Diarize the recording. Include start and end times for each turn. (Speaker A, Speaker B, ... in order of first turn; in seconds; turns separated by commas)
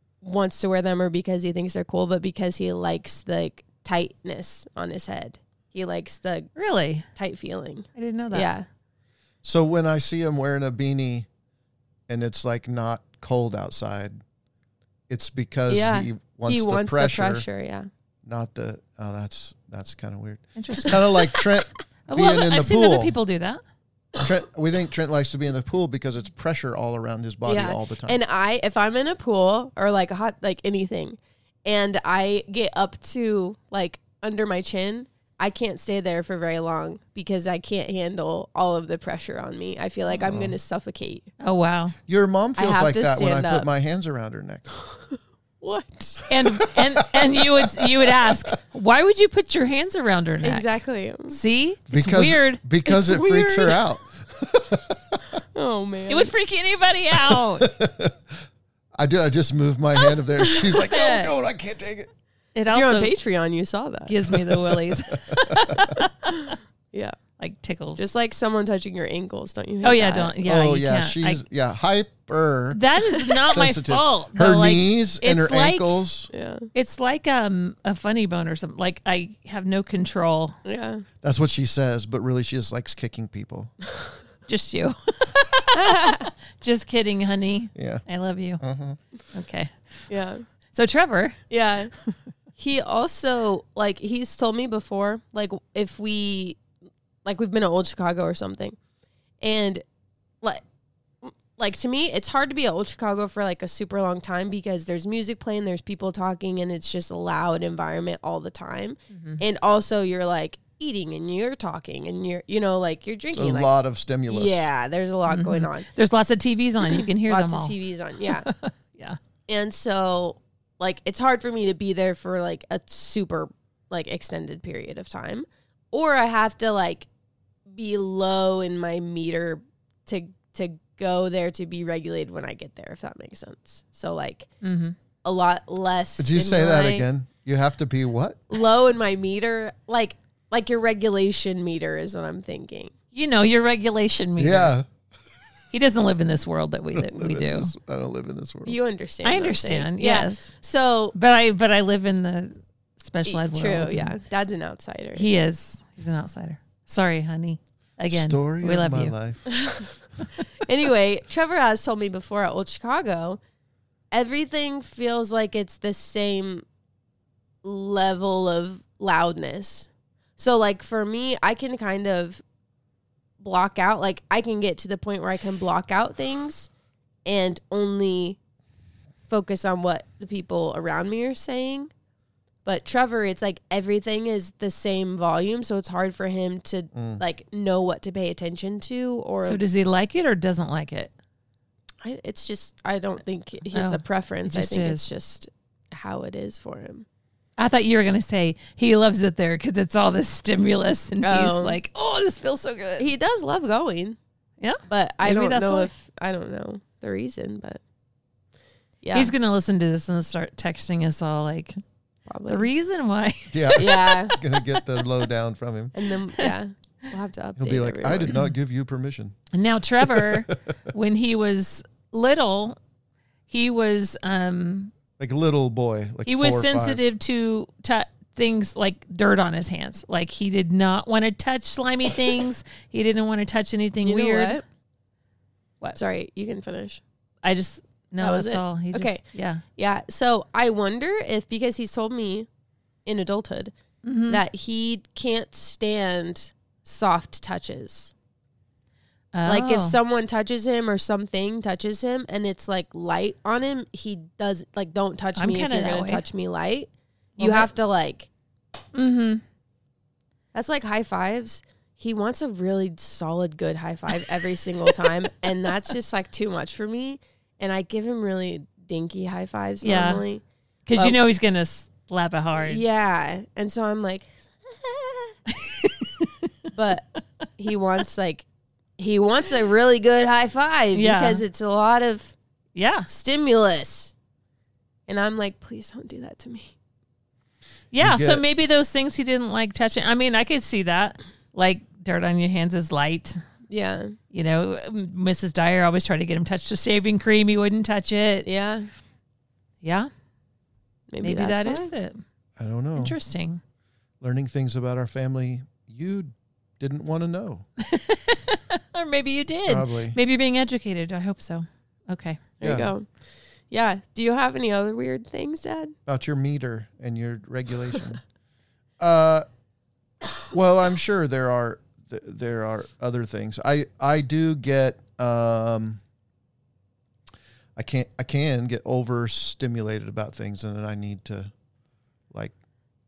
Speaker A: 0.2-6.5, Speaker B: 6.5-7.1, Speaker A: 7.1-8.7, Speaker B: 7.9-8.5, Speaker C: 9.4-11.3, Speaker C: 12.1-14.2, Speaker C: 15.1-17.4, Speaker A: 15.7-17.9, Speaker C: 18.2-23.1, Speaker B: 20.6-21.1, Speaker A: 21.1-21.4, Speaker B: 22.1-23.6, Speaker C: 24.2-28.2, Speaker A: 27.4-41.3, Speaker C: 40.2-40.5, Speaker B: 41.4-41.9, Speaker C: 42.0-44.7, Speaker A: 42.6-43.7, Speaker A: 44.8-46.2, Speaker B: 46.3-50.7, Speaker C: 46.6-48.4, Speaker A: 50.4-51.4, Speaker B: 51.3-52.6, Speaker C: 51.9-55.3, Speaker A: 52.8-53.8, Speaker A: 55.5-56.3, Speaker B: 56.1-57.7, Speaker C: 57.1-58.4, Speaker C: 59.0-62.1, Speaker B: 60.7-61.3, Speaker B: 62.5-63.1, Speaker A: 62.7-64.2, Speaker B: 64.1-66.5, Speaker C: 64.3-65.9, Speaker A: 66.2-67.2, Speaker B: 67.4-68.0, Speaker A: 68.0-70.3, Speaker B: 69.8-71.4, Speaker C: 70.4-72.8, Speaker B: 72.7-75.9, Speaker C: 73.4-76.3, Speaker A: 76.3-76.7, Speaker B: 76.7-80.6, Speaker A: 80.6-81.0, Speaker C: 81.2-83.7, Speaker B: 84.5-88.6, Speaker A: 85.7-86.3, Speaker C: 87.7-88.0, Speaker C: 88.6-89.0, Speaker B: 89.3-90.0, Speaker A: 90.1-90.4, Speaker B: 90.7-91.4, Speaker A: 91.5-91.9, Speaker A: 92.6-96.6, Speaker A: 97.2-98.8, Speaker A: 99.4-99.8, Speaker A: 101.2-113.7, Speaker B: 109.1-109.4, Speaker C: 113.3-114.7, Speaker A: 114.3-115.9, Speaker B: 115.3-119.2, Speaker A: 116.8-118.5, Speaker A: 119.5-127.1, Speaker A: 127.7-134.5, Speaker B: 134.6-135.0, Speaker A: 135.2-137.1, Speaker C: 136.2-138.5, Speaker A: 138.5-142.9, Speaker B: 143.1-144.7, Speaker C: 144.4-144.8, Speaker B: 145.7-147.7, Speaker C: 146.9-148.8, Speaker A: 148.7-151.1, Speaker B: 149.2-150.5, Speaker B: 151.1-154.1, Speaker A: 153.2-155.3, Speaker B: 155.2-159.1, Speaker C: 158.1-159.7, Speaker A: 159.5-163.4, Speaker A: 164.1-166.7, Speaker A: 167.6-172.4, Speaker A: 173.4-176.7, Speaker A: 177.2-178.4, Speaker A: 179.3-181.9, Speaker A: 182.6-189.6, Speaker C: 186.9-187.2, Speaker B: 189.4-191.1, Speaker A: 192.0-197.1, Speaker B: 193.7-195.1, Speaker B: 197.6-203.1, Speaker A: 201.2-201.8, Speaker A: 203.0-204.2, Speaker B: 204.6-205.9, Speaker A: 204.9-207.8, Speaker A: 209.0-209.3, Speaker B: 209.1-211.8, Speaker A: 212.3-212.7, Speaker B: 212.5-214.8, Speaker C: 213.5-215.9, Speaker A: 213.7-214.3, Speaker A: 215.9-218.4, Speaker C: 217.6-219.3, Speaker B: 219.5-222.8, Speaker C: 220.0-220.5, Speaker B: 223.5-224.9, Speaker C: 225.2-227.0, Speaker B: 226.2-234.6, Speaker A: 234.0-234.6, Speaker A: 235.9-237.0, Speaker B: 237.4-239.6, Speaker A: 238.2-239.2, Speaker A: 239.8-242.5, Speaker A: 243.1-243.7, Speaker B: 244.0-244.4, Speaker A: 244.3-248.1, Speaker B: 249.3-250.0, Speaker A: 249.4-258.3, Speaker B: 255.3-256.2, Speaker B: 257.4-257.7, Speaker B: 258.9-259.4, Speaker A: 260.5-270.4, Speaker B: 269.8-270.2, Speaker B: 270.9-272.8, Speaker A: 272.6-274.3, Speaker A: 274.8-275.3, Speaker B: 275.6-276.3, Speaker A: 276.7-277.0, Speaker A: 277.6-278.4, Speaker A: 279.0-282.3, Speaker B: 280.9-281.4, Speaker B: 282.8-283.1, Speaker A: 283.1-284.1, Speaker A: 285.1-286.7, Speaker B: 287.9-293.4, Speaker C: 288.0-288.4, Speaker A: 293.7-294.1, Speaker B: 294.3-298.5, Speaker A: 298.4-298.9, Speaker B: 299.8-300.1, Speaker A: 301.1-301.9, Speaker B: 301.2-302.2, Speaker C: 302.6-303.1, Speaker B: 303.0-303.6, Speaker C: 304.2-307.6, Speaker B: 307.8-312.4, Speaker C: 309.7-310.2, Speaker A: 312.6-313.1, Speaker C: 312.6-312.9, Speaker A: 313.7-315.9, Speaker C: 316.1-318.2, Speaker C: 319.0-319.4, Speaker C: 320.5-326.0, Speaker C: 327.8-331.5